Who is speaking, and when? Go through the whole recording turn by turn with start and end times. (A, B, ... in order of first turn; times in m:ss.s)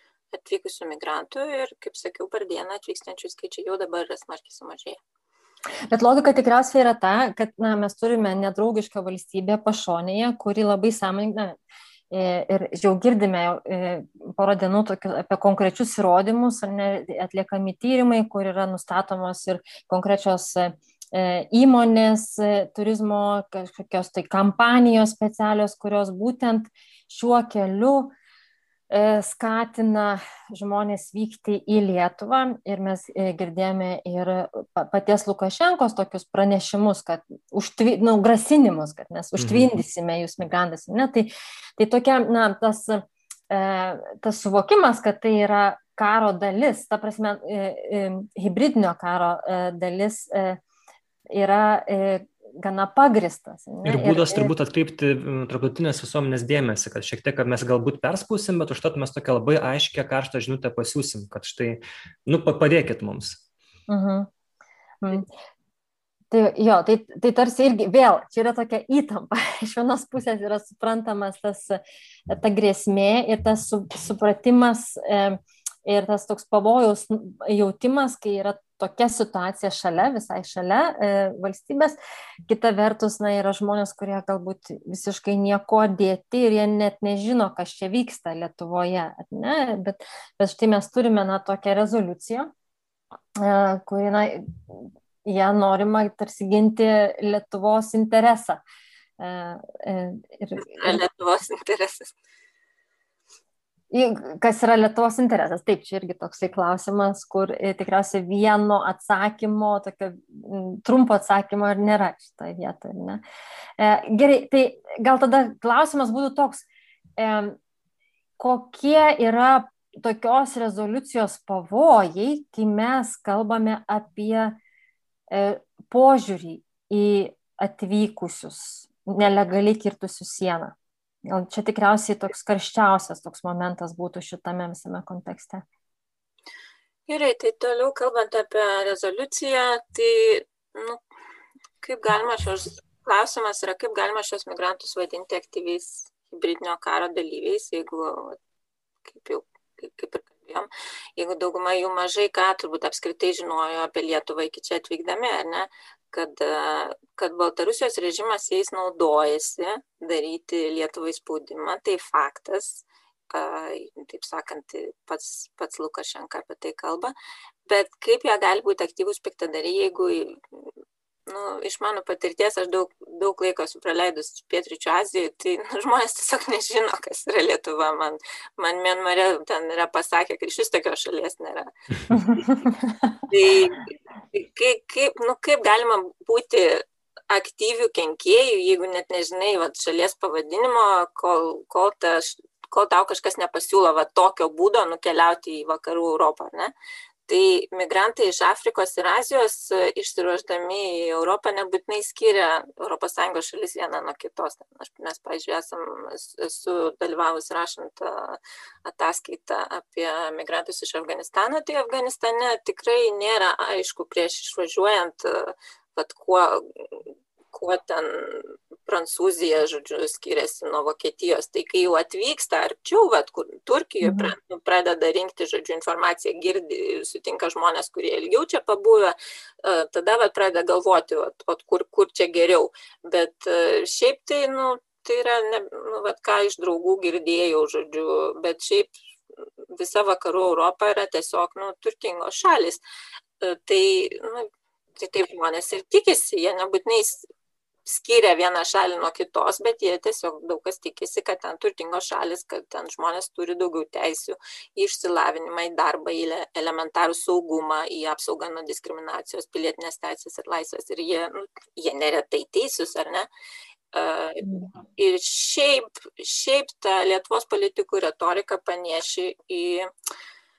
0:00.3-0:05.0 A
0:05.9-0:11.6 B
0:12.1-0:28.1 B
0:28.9-0:50.6 B
0:39.4-0:39.7 C
0:51.3-0:54.5 B
0:53.8-1:03.4 C
1:03.9-1:04.3 B
1:05.0-1:05.3 B
1:06.3-1:32.5 B
1:33.4-1:38.6 B
1:39.2-1:41.0 B
1:40.6-1:42.1 A
1:43.9-1:53.2 B
1:53.8-1:56.6 B
1:57.2-1:57.6 B
1:58.4-2:04.6 B
2:05.3-2:10.7 B
2:11.2-2:15.6 B
2:17.1-2:21.0 A
2:21.8-2:28.4 A
2:29.0-2:47.1 A
2:47.6-2:50.7 A
2:51.3-3:02.2 A
3:02.1-3:03.1 B
3:03.3-3:16.7 A
3:17.3-3:58.9 A
3:44.0-3:44.3 B
3:59.7-4:02.8 A
4:03.4-4:07.3 A
4:07.8-4:23.3 A
4:23.9-4:29.9 A